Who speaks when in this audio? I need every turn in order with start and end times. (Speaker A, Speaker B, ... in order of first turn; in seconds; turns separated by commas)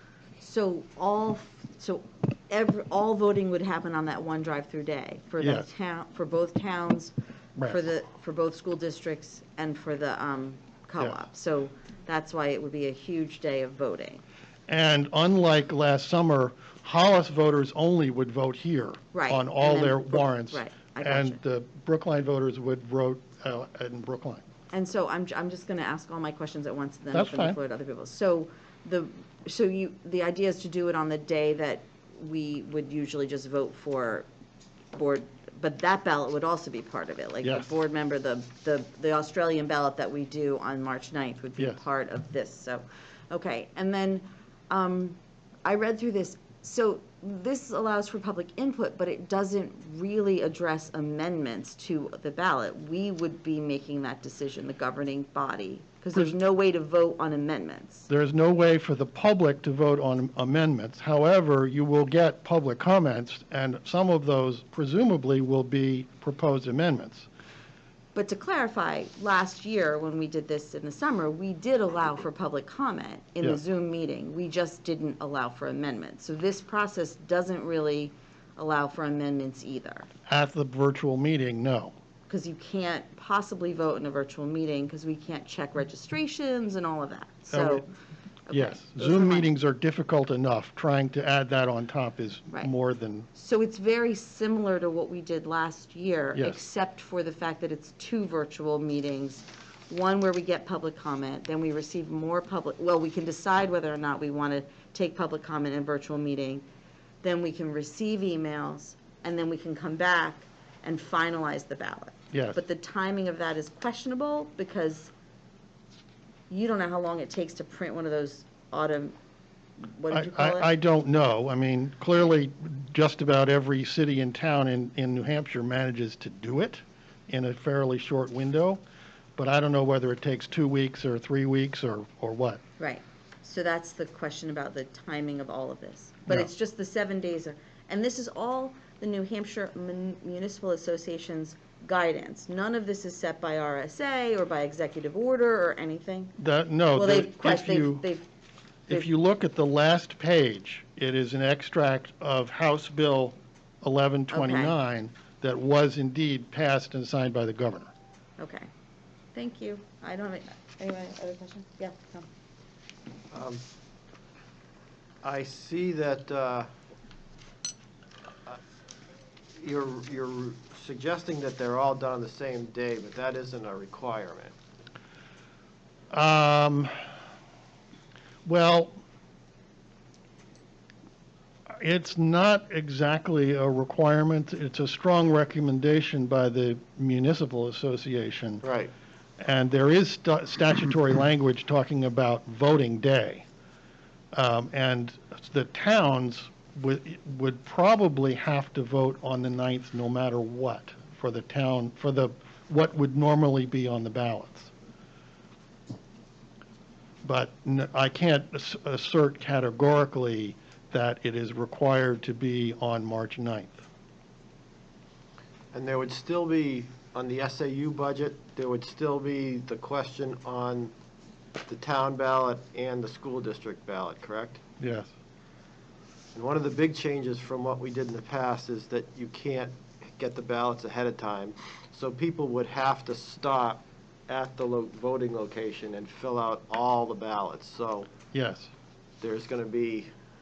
Speaker A: 0.4-7.1, Speaker B: 5.4-5.7, Speaker A: 7.6-14.2, Speaker B: 14.7-24.4, Speaker A: 19.1-21.4, Speaker A: 24.7-34.3, Speaker B: 27.1-27.6, Speaker A: 34.9-58.1, Speaker B: 37.4-37.8, Speaker B: 58.1-67.3, Speaker A: 68.1-80.1, Speaker B: 80.3-81.9, Speaker A: 82.3-87.9, Speaker B: 87.5-87.8, Speaker A: 88.5-89.5, Speaker B: 88.5-93.3, Speaker A: 93.3-106.7, Speaker A: 107.2-115.1, Speaker B: 112.3-112.6, Speaker A: 116.5-119.2, Speaker A: 119.8-120.7, Speaker B: 120.1-128.8, Speaker B: 129.3-132.6, Speaker A: 132.8-146.3, Speaker B: 146.4-148.1, Speaker A: 146.9-148.3, Speaker B: 148.9-157.9, Speaker A: 154.3-154.7, Speaker A: 158.4-158.7, Speaker A: 159.3-162.3, Speaker C: 163.3-163.6, Speaker C: 165.2-166.7, Speaker C: 169.6-174.5, Speaker B: 176.1-176.9, Speaker B: 178.4-179.0, Speaker B: 181.8-188.6, Speaker C: 188.6-188.9, Speaker B: 189.4-193.4, Speaker B: 194.3-204.7, Speaker B: 207.2-213.8, Speaker C: 215.7-220.9, Speaker C: 221.7-224.6, Speaker B: 224.8-225.1, Speaker C: 226.3-238.1, Speaker B: 238.3-238.7, Speaker C: 239.2-240.1